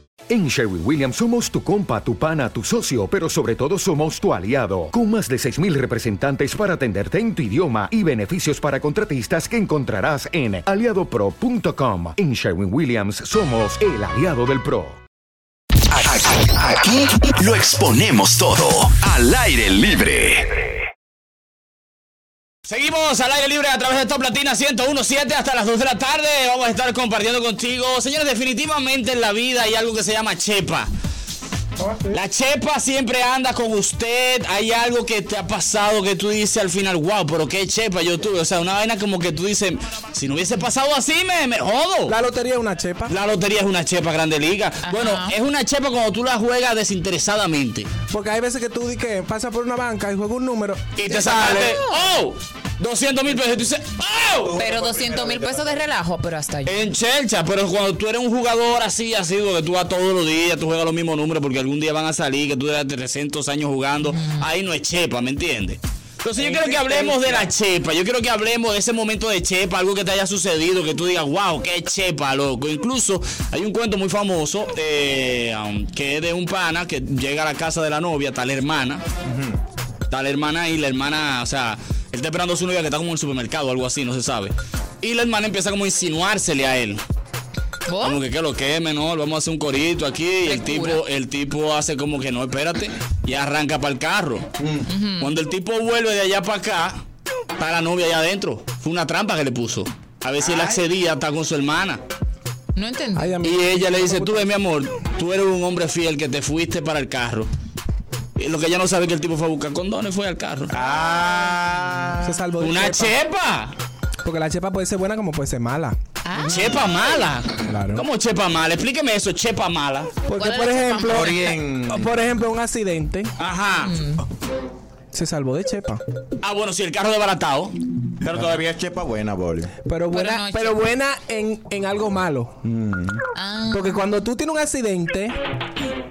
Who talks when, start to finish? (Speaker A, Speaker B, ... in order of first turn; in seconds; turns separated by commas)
Speaker A: 0.3-15.0, Speaker B: 15.9-20.8, Speaker C: 22.6-30.9, Speaker C: 32.1-42.1, Speaker D: 42.1-43.1, Speaker C: 43.1-47.9, Speaker E: 44.9-45.4, Speaker D: 48.1-50.9, Speaker C: 51.0-54.5, Speaker E: 51.1-52.0, Speaker F: 54.4-55.8, Speaker E: 54.5-56.8, Speaker C: 56.7-79.0, Speaker E: 64.0-64.5, Speaker F: 66.8-67.3, Speaker F: 79.2-79.6, Speaker C: 80.1-87.0, Speaker E: 87.9-88.2, Speaker C: 88.0-94.5, Speaker E: 90.5-91.0, Speaker F: 94.6-94.9, Speaker E: 94.9-95.3, Speaker C: 95.2-97.0, Speaker C: 97.6-102.0, Speaker F: 100.4-100.8, Speaker E: 102.8-103.4, Speaker D: 103.2-104.5, Speaker C: 103.4-107.5, Speaker C: 108.4-110.8, Speaker F: 110.7-112.3, Speaker D: 112.2-113.2, Speaker C: 112.6-113.8, Speaker D: 114.2-116.0, Speaker E: 116.3-116.8, Speaker C: 116.4-120.1, Speaker D: 117.7-118.0, Speaker D: 120.3-123.3, Speaker E: 120.3-121.6, Speaker F: 121.1-122.2, Speaker C: 123.4-123.9, Speaker E: 123.8-124.2, Speaker D: 125.1-126.0, Speaker C: 126.4-127.8, Speaker F: 128.2-129.7, Speaker D: 129.8-132.6, Speaker E: 130.1-130.8, Speaker F: 132.6-133.2, Speaker E: 133.3-134.0, Speaker D: 133.7-135.4